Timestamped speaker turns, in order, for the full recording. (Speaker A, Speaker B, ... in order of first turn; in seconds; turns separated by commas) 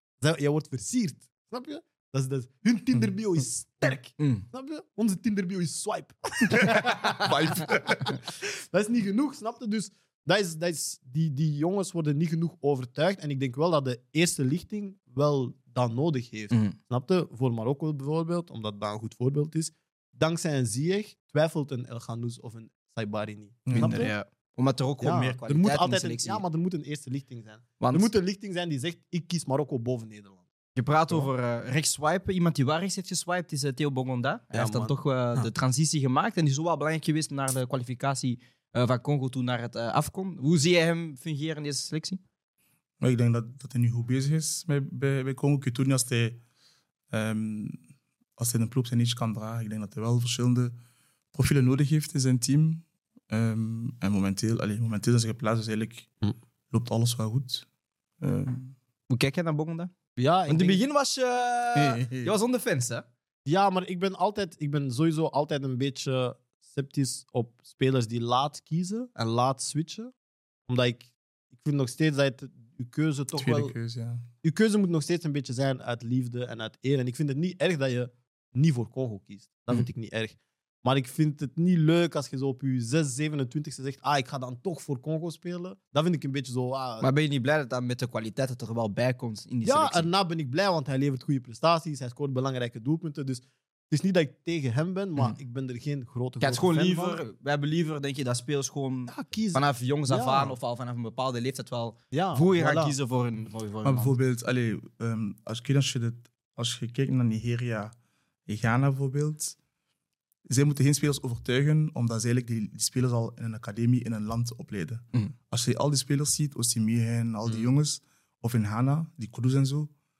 Speaker A: 0.2-7.7, Speaker B: 4.2-4.4, Speaker C: 6.5-8.2, Speaker A: 8.3-24.1, Speaker B: 16.5-16.8, Speaker C: 23.6-24.1, Speaker B: 23.7-26.4, Speaker A: 25.0-30.5, Speaker B: 27.8-28.1, Speaker B: 30.8-42.2, Speaker A: 34.5-35.0, Speaker C: 43.0-46.4, Speaker C: 47.1-47.8, Speaker C: 48.4-50.7, Speaker C: 51.3-56.1, Speaker C: 56.7-57.6, Speaker C: 58.2-58.7, Speaker B: 59.1-59.9, Speaker A: 60.2-60.8, Speaker B: 60.5-63.0, Speaker C: 61.7-62.3, Speaker A: 63.5-70.1, Speaker A: 70.7-73.7, Speaker C: 73.3-74.2, Speaker A: 74.4-87.1, Speaker B: 87.0-90.1, Speaker A: 89.6-97.2, Speaker B: 96.4-104.1, Speaker A: 99.1-100.5, Speaker A: 102.1-103.0, Speaker C: 103.8-107.9, Speaker C: 108.5-109.6, Speaker C: 110.5-119.9